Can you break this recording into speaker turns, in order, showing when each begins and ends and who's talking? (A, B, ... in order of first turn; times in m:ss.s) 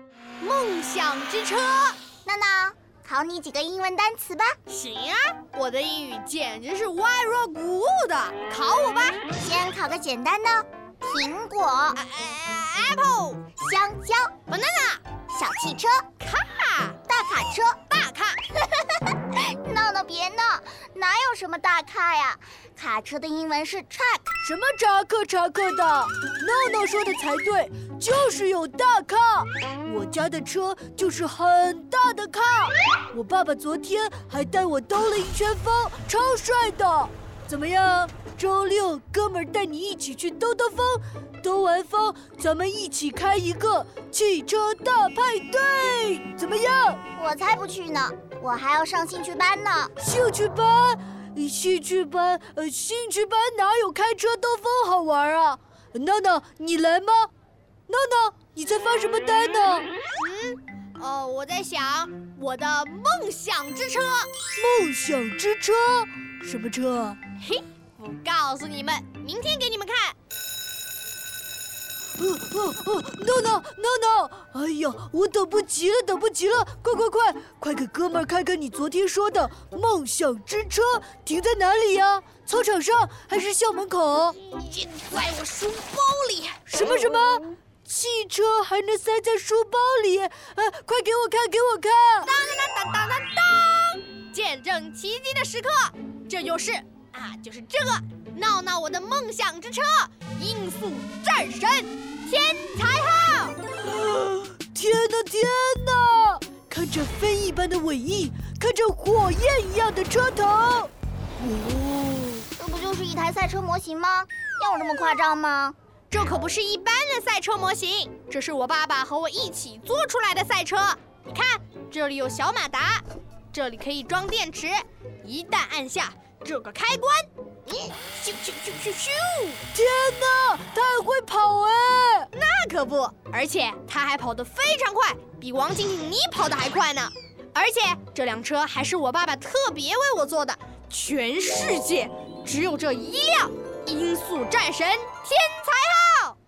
0:00.4-0:02.0 A
0:02.2-0:04.6 B
0:04.7-0:09.3 A
0:09.4-0:12.0 B
0:12.0-0:13.4 A
0:13.6-0:14.3 B
0:14.5-0:15.0 A
0:15.3-0:16.0 B
0:16.2-0:17.0 A
0:17.1-0:17.8 B
0:17.9-0:18.4 A
0:19.0-0:24.4 B
0:24.4-0:47.0 C
0:47.2-0:49.9 B
0:50.0-0:57.3 C
0:57.9-0:59.9 C
1:00.2-1:04.3 A
1:04.6-1:07.2 C
1:07.4-1:10.2 A
1:12.2-1:24.4 C
1:24.4-1:26.6 A
1:26.7-1:32.3 C
1:32.2-1:43.6 A
1:43.8-1:52.5 C
1:52.6-1:55.7 B
1:56.1-2:09.6 A
2:09.7-2:12.3 C
2:12.3-2:26.4 A